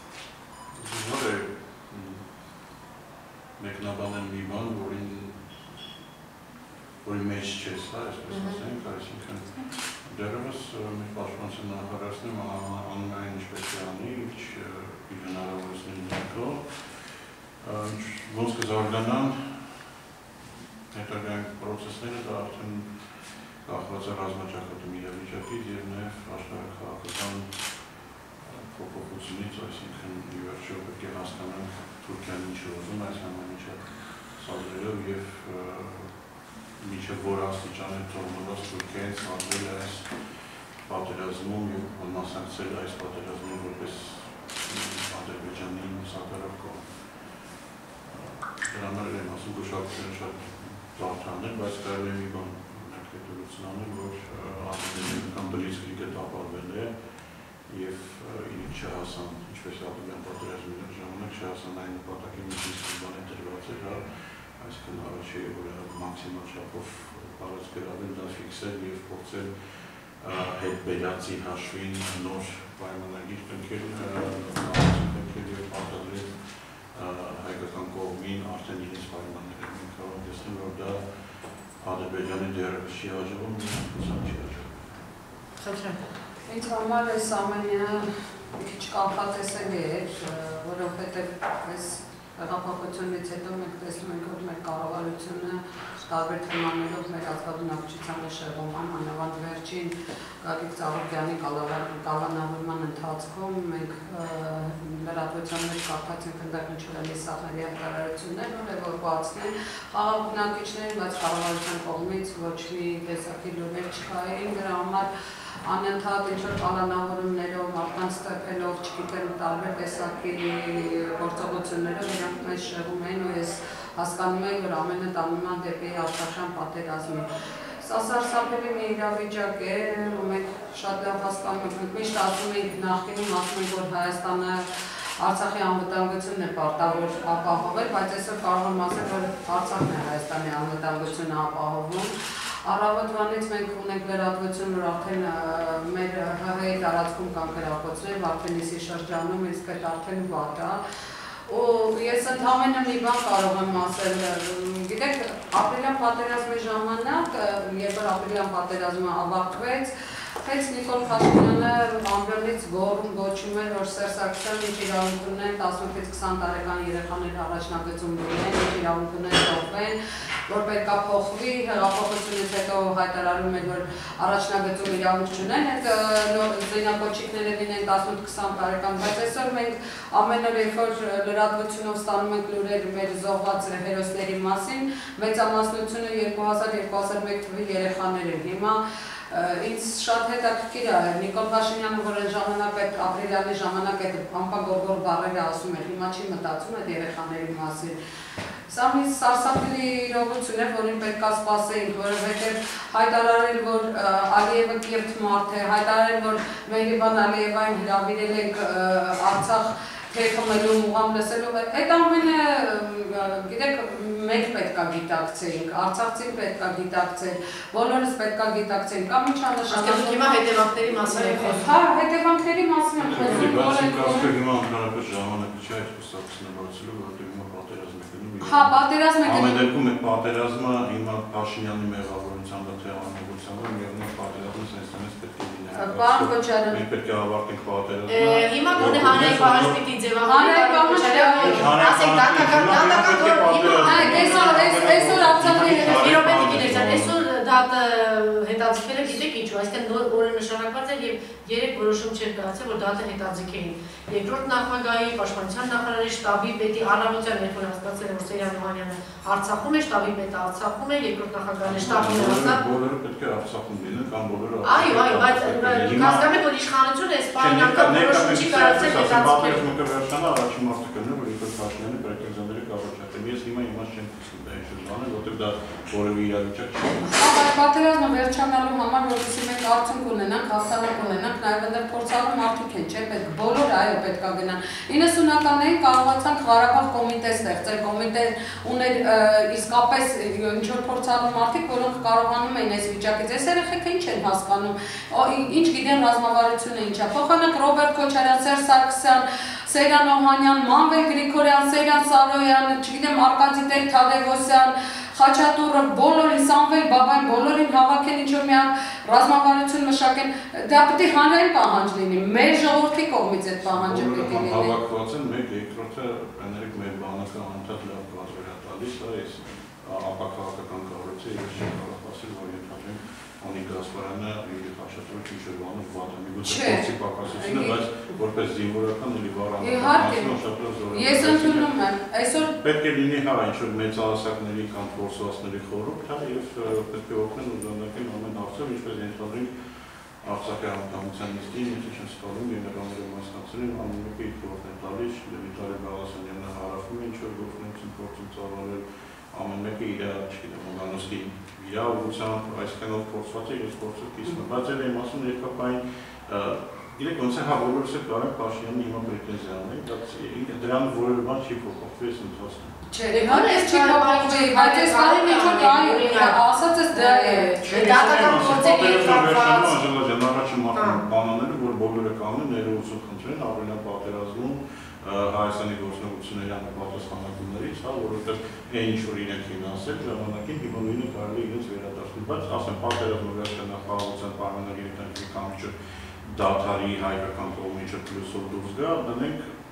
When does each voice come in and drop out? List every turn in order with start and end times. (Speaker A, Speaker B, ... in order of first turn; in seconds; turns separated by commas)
Speaker A: 0.8-2.2, Speaker A: 3.6-5.4, Speaker A: 7.0-16.6, Speaker B: 8.3-8.6, Speaker A: 17.6-19.4, Speaker A: 20.9-22.9, Speaker A: 23.6-27.5, Speaker A: 28.4-36.1, Speaker A: 36.8-40.1, Speaker A: 40.9-46.9, Speaker A: 48.1-56.9, Speaker A: 57.7-69.5, Speaker A: 70.2-76.3, Speaker A: 76.9-81.0, Speaker A: 81.8-85.0, Speaker B: 85.6-86.0, Speaker C: 86.5-115.1, Speaker C: 115.7-127.3, Speaker C: 127.8-170.0, Speaker C: 170.5-197.9, Speaker C: 198.7-220.3, Speaker B: 219.7-221.7, Speaker C: 220.9-224.3, Speaker A: 223.0-228.7, Speaker C: 228.4-229.7, Speaker A: 229.2-239.7, Speaker C: 235.7-236.8, Speaker B: 238.1-262.6, Speaker C: 240.2-241.7, Speaker A: 241.4-247.2, Speaker C: 243.8-246.7, Speaker A: 261.6-266.2, Speaker B: 264.6-269.6, Speaker A: 267.4-277.2, Speaker C: 277.1-314.7, Speaker A: 313.7-331.7, Speaker C: 326.4-327.7, Speaker C: 329.6-330.3, Speaker C: 330.9-332.5, Speaker A: 332.5-339.5, Speaker A: 340.2-348.8, Speaker A: 349.3-362.8, Speaker C: 362.9-367.5, Speaker B: 363.1-366.4, Speaker B: 366.9-369.7, Speaker A: 367.6-385.7, Speaker B: 370.7-371.0, Speaker A: 386.2-389.4